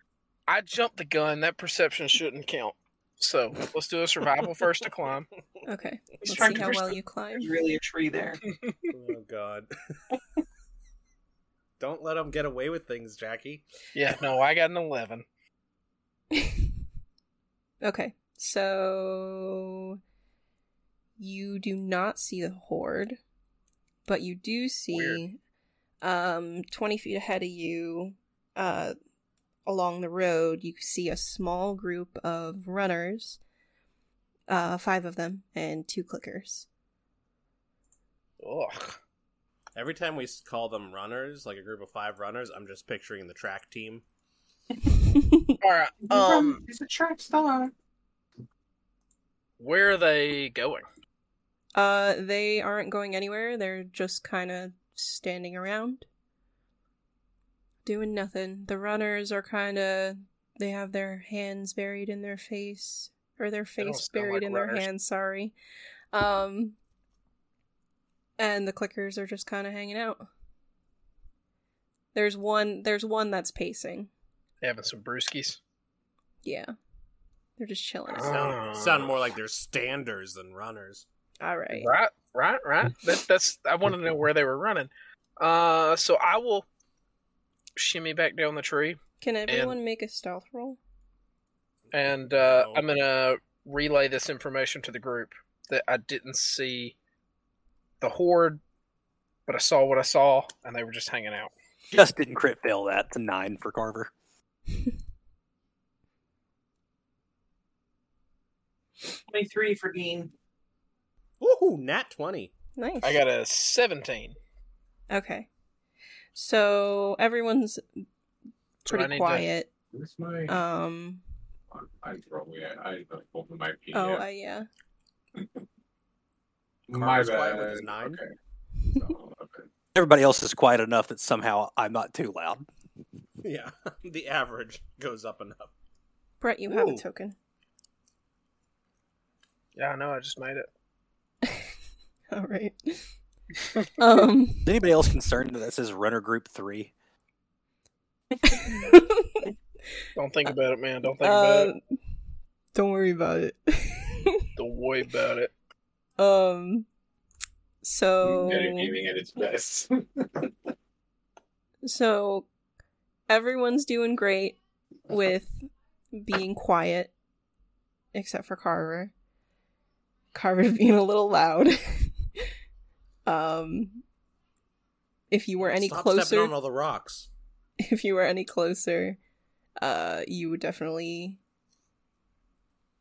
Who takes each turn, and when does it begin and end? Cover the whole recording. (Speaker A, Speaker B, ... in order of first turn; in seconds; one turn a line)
Speaker A: 0.5-5.3
Speaker B: 5.7-7.5
Speaker C: 6.2-8.4
Speaker A: 8.5-8.8
Speaker D: 8.9-9.7
Speaker D: 11.8-13.6
Speaker A: 13.9-15.2
Speaker B: 16.3-16.7
Speaker B: 17.8-20.0
Speaker B: 21.2-23.2
Speaker B: 24.1-25.4
Speaker A: 24.9-25.2
Speaker B: 26.0-28.9
Speaker B: 29.6-33.4
Speaker B: 34.5-36.7
Speaker A: 38.4-39.0
Speaker D: 39.7-44.0
Speaker B: 45.1-45.5
Speaker A: 45.6-46.6
Speaker C: 46.0-47.7
Speaker A: 49.6-50.8
Speaker B: 51.7-56.0
Speaker B: 57.8-65.5
Speaker A: 63.8-64.8
Speaker B: 66.1-66.8
Speaker B: 68.4-70.3
Speaker B: 72.1-74.1
Speaker A: 74.6-75.6
Speaker B: 76.4-76.7
Speaker B: 77.6-78.5
Speaker A: 78.1-79.1
Speaker D: 78.2-81.0
Speaker B: 81.4-81.9
Speaker A: 81.7-86.7
Speaker A: 87.8-89.8
Speaker B: 89.2-90.8
Speaker D: 91.9-92.9
Speaker A: 91.9-97.0
Speaker A: 98.0-98.6
Speaker A: 99.5-101.5
Speaker E: 101.9-104.1
Speaker C: 109.2-110.3
Speaker D: 111.4-112.5
Speaker B: 112.8-113.2
Speaker A: 113.0-114.3
Speaker B: 115.1-115.5
Speaker B: 116.3-118.0
Speaker B: 118.8-119.7
Speaker A: 118.9-119.5
Speaker F: 119.9-120.6
Speaker B: 120.5-121.2
Speaker F: 121.7-124.2
Speaker B: 123.9-124.7
Speaker F: 126.9-128.3
Speaker D: 126.9-128.2
Speaker F: 128.9-129.7
Speaker E: 129.9-132.7
Speaker D: 133.4-135.7
Speaker B: 136.4-137.3
Speaker D: 136.7-137.0
Speaker A: 139.8-140.7
Speaker B: 142.3-143.1
Speaker B: 144.0-144.8
Speaker E: 144.6-146.9
Speaker B: 148.5-149.5
Speaker A: 150.2-151.7
Speaker B: 151.2-151.8
Speaker B: 152.7-154.5
Speaker A: 154.6-155.5
Speaker B: 156.2-156.9
Speaker B: 157.8-158.9
Speaker F: 158.2-160.5
Speaker B: 161.8-162.5
Speaker B: 163.3-164.6
Speaker B: 165.1-167.1
Speaker B: 168.1-169.1
Speaker B: 170.3-172.2
Speaker B: 173.2-174.0
Speaker B: 175.3-176.6
Speaker D: 175.6-177.3
Speaker B: 177.8-179.2
Speaker B: 179.8-181.4